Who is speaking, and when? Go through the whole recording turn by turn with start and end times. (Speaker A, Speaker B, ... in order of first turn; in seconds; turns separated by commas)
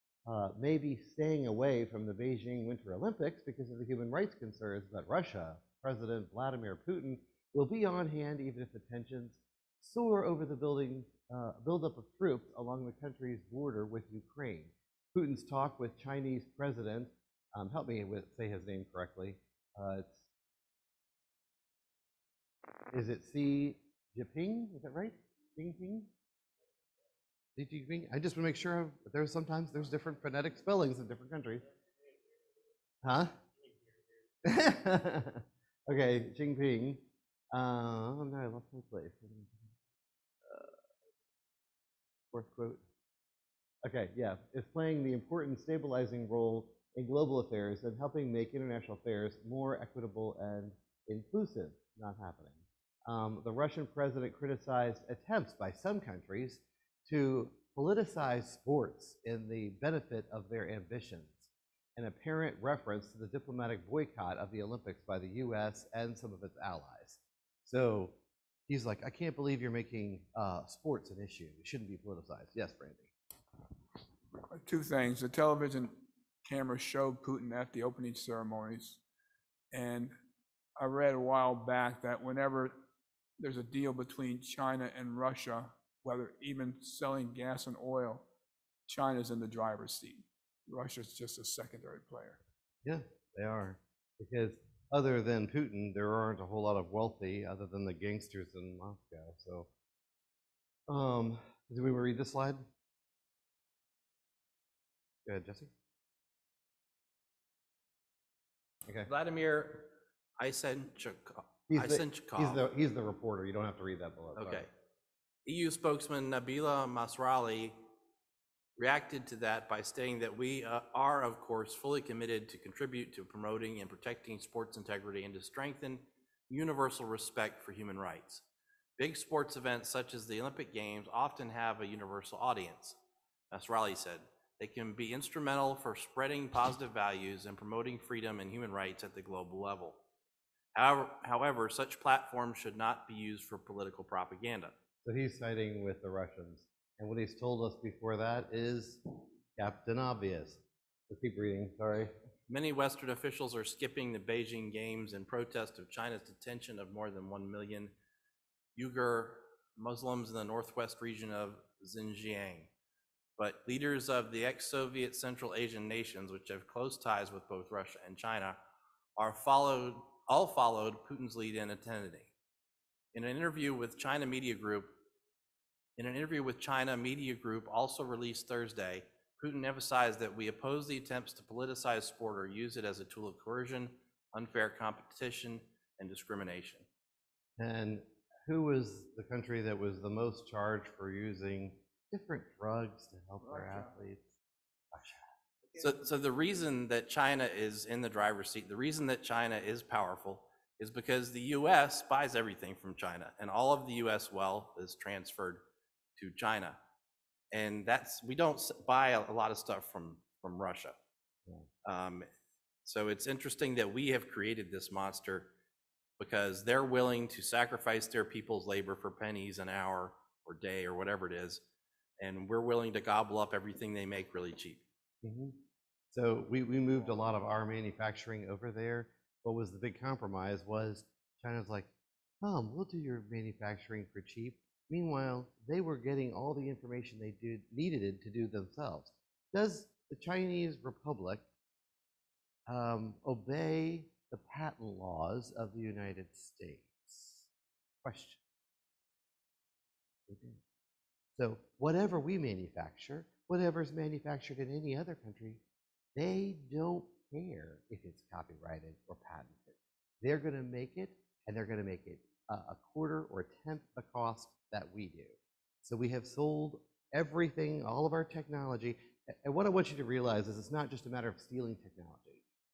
Speaker A: 0.3-20.2, Speaker A: 22.9-26.1, Speaker A: 27.6-31.6, Speaker A: 33.0-33.4, Speaker A: 34.4-39.7, Speaker A: 40.4-40.8, Speaker A: 42.3-42.8, Speaker A: 43.8-68.2, Speaker A: 68.7-73.1, Speaker B: 74.5-79.0, Speaker B: 79.7-80.1, Speaker B: 80.8-82.8, Speaker B: 83.4-88.2, Speaker B: 88.9-92.4, Speaker A: 92.8-99.7, Speaker A: 100.9-102.7, Speaker A: 105.2-105.7, Speaker C: 109.1-112.6, Speaker A: 111.7-114.7, Speaker C: 114.4-114.7, Speaker C: 115.4-117.8, Speaker C: 118.8-128.4, Speaker C: 129.0-133.0, Speaker C: 133.5-140.0, Speaker C: 140.7-144.7, Speaker A: 145.0-149.0, Speaker A: 149.6-152.1, Speaker C: 152.5-157.9, Speaker C: 158.8-162.7, Speaker C: 163.4-168.6, Speaker C: 169.2-172.3, Speaker C: 173.1-175.0, Speaker C: 176.0-186.9, Speaker A: 187.6-194.3, Speaker A: 194.9-195.2, Speaker C: 195.7-205.6, Speaker C: 206.2-206.8, Speaker C: 207.5-210.9, Speaker C: 211.8-212.3, Speaker C: 212.8-215.5, Speaker C: 216.2-221.6, Speaker C: 222.2-224.8, Speaker A: 225.2-225.6, Speaker A: 226.1-231.9, Speaker A: 232.4-241.4, Speaker A: 242.7-247.5, Speaker A: 248.0-248.4, Speaker A: 250.3-250.6, Speaker A: 251.3-255.6, Speaker A: 256.1-272.4